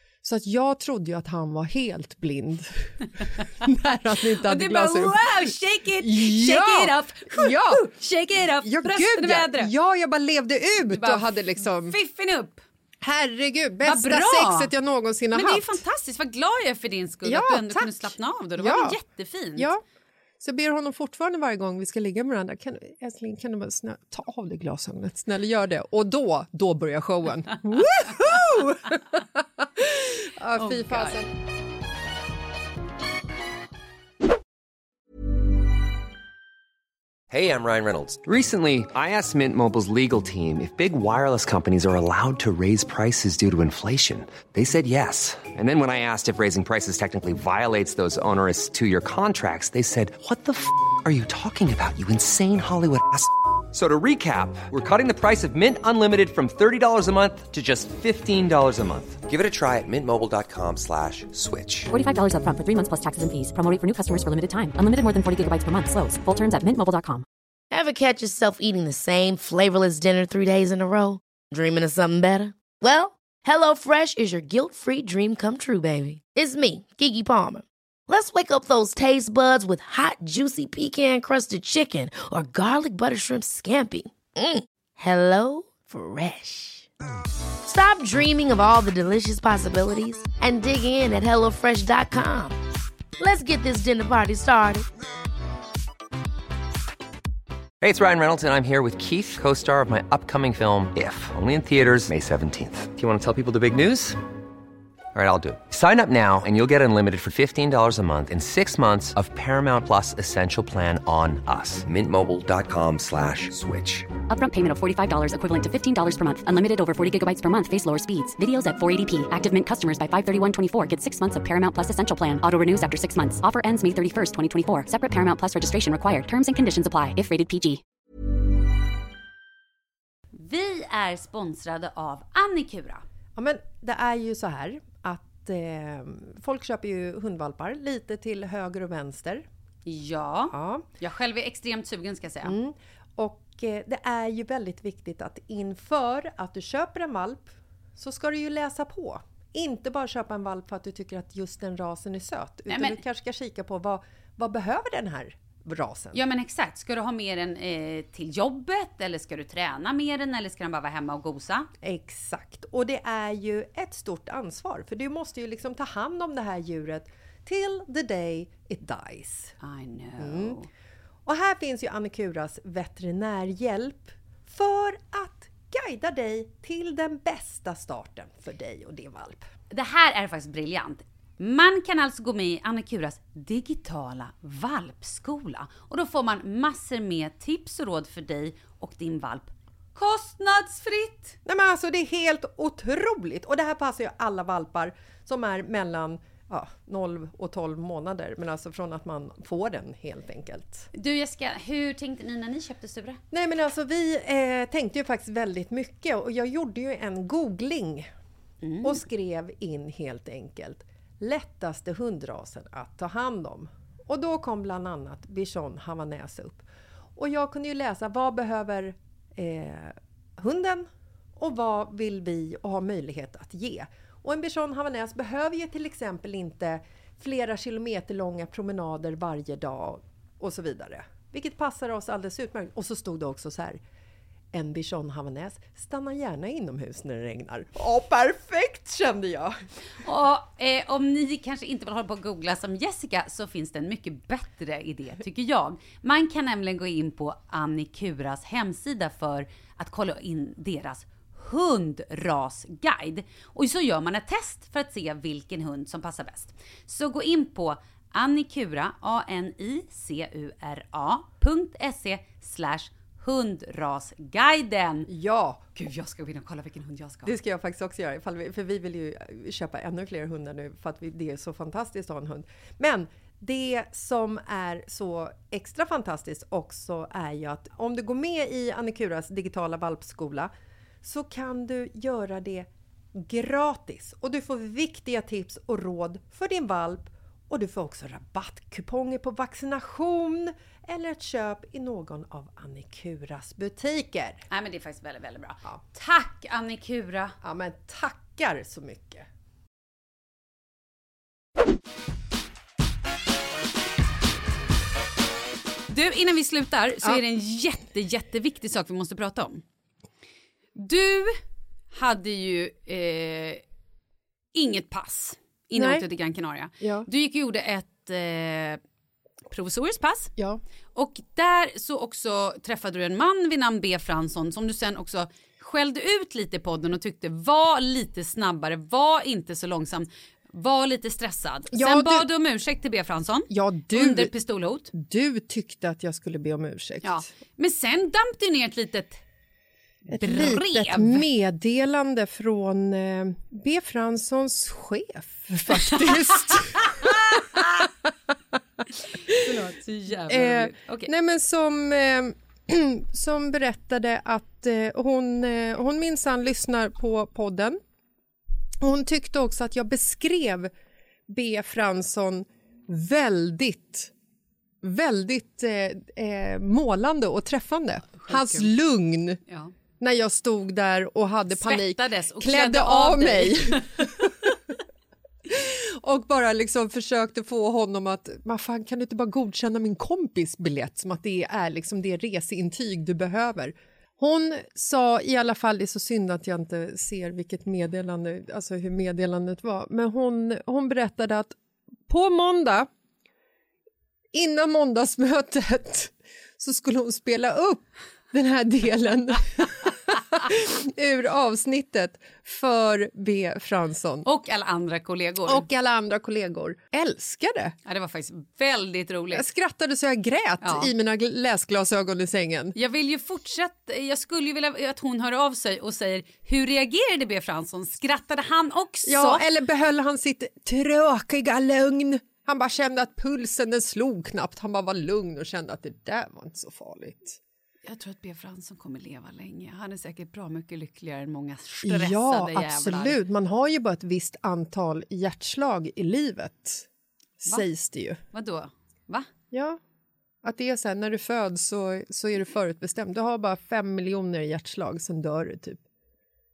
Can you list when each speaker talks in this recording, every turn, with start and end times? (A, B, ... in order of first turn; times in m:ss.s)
0:00.2-0:07.9 A
0:04.4-0:09.7 B
0:08.6-0:12.0 A
0:10.9-0:12.6 B
0:13.0-0:15.8 A
0:13.8-0:14.7 B
0:15.3-0:19.7 B
0:17.2-0:19.0 A
0:19.6-0:19.8 A
0:20.4-0:31.3 A
0:30.6-0:31.2 B
0:37.3-1:01.9 C
1:01.9-1:07.2 D
1:07.7-1:26.9 E
1:27.6-1:32.6 E
1:33.2-1:34.9 E
1:37.8-1:44.2 C
1:45.2-1:54.1 C
1:54.3-2:07.8 D
2:10.3-2:13.0 B
2:13.4-2:19.5 A
2:19.9-2:22.6 B
2:20.5-2:20.9 A
2:22.4-2:36.2 A
2:32.7-2:33.0 B
2:36.1-2:41.7 B
2:41.8-2:49.6 A
2:49.6-2:50.7 B
2:50.2-2:50.6 A
2:51.3-2:59.5 A
2:59.7-3:11.4 B
3:11.4-3:20.9 A
3:20.9-3:23.2 B
3:23.3-3:28.1 A
3:28.6-3:29.0 B
3:28.8-3:53.8 A
3:54.5-3:59.6 A
4:00.0-4:25.1 B
4:25.1-4:25.6 A
4:25.8-4:27.4 B
4:27.2-4:40.5 A
4:41.0-4:54.4 A
4:54.5-4:57.4 B
4:57.4-4:59.3 A
5:05.9-5:09.6 B
5:10.8-5:13.6 B
5:14.5-5:18.8 B
5:15.8-5:16.1 A
5:16.8-5:17.1 A
5:19.5-5:20.3 B
5:21.0-5:34.9 B
5:31.7-5:32.3 A
5:33.5-5:34.3 A
5:34.9-5:37.3 A
5:37.0-5:39.2 B
5:40.1-5:41.3 B
5:40.1-5:48.6 A
5:45.7-5:47.6 B
5:49.2-5:51.1 B
5:49.3-5:49.6 A
5:50.3-5:57.8 A
5:58.8-6:00.7 A
6:01.3-6:04.1 A
6:04.8-6:09.4 A
6:08.2-6:08.7 B
6:09.5-6:09.7 B
6:10.0-6:14.6 A
6:11.5-6:14.1 B
6:15.5-6:31.6 A
6:32.1-6:32.9 A
6:34.3-6:44.3 A
6:44.2-6:45.7 B
6:45.5-6:47.8 A
6:47.9-6:49.5 B
6:49.3-6:52.8 A
6:50.6-6:50.9 B
6:52.8-6:59.5 B
6:59.1-7:07.4 A
7:07.8-7:13.2 B
7:11.8-7:16.9 A
7:17.4-7:18.2 A
7:18.3-7:19.3 B
7:19.5-7:19.8 A
7:20.4-7:25.8 A